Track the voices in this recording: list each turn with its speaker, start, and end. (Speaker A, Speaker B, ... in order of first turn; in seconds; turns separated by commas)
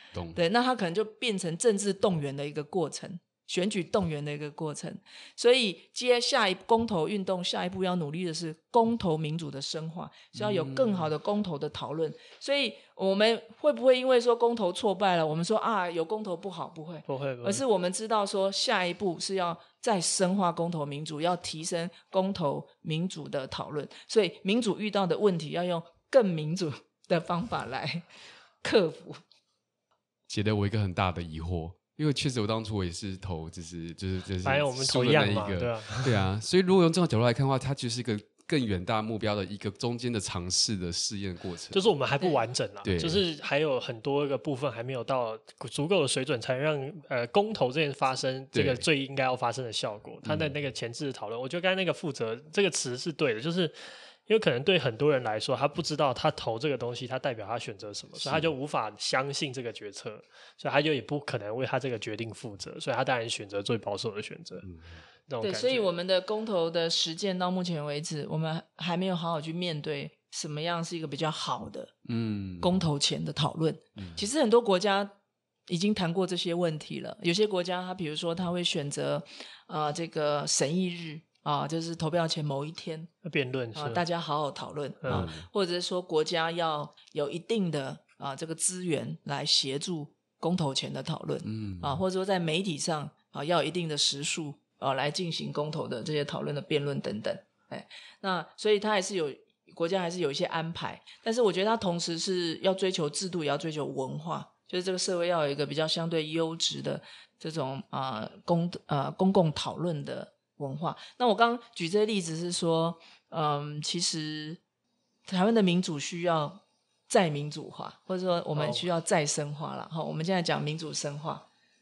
Speaker A: 0.1-0.4, Speaker B: 0.3-28.1, Speaker A: 10.3-11.1, Speaker C: 17.1-17.6, Speaker B: 28.6-29.2, Speaker A: 30.3-41.9, Speaker C: 34.4-36.2, Speaker C: 41.7-64.7, Speaker A: 42.8-43.2, Speaker A: 48.5-48.9, Speaker A: 50.2-50.5, Speaker A: 58.2-58.5, Speaker A: 64.6-65.0, Speaker C: 65.3-65.8, Speaker B: 65.4-72.0, Speaker A: 72.1-72.9, Speaker B: 72.6-75.1, Speaker A: 74.0-74.2, Speaker B: 75.7-83.1, Speaker C: 83.2-84.0, Speaker B: 83.8-114.6, Speaker C: 85.0-85.3, Speaker A: 85.1-85.5, Speaker A: 91.5-92.0, Speaker B: 115.3-121.5, Speaker C: 118.6-118.9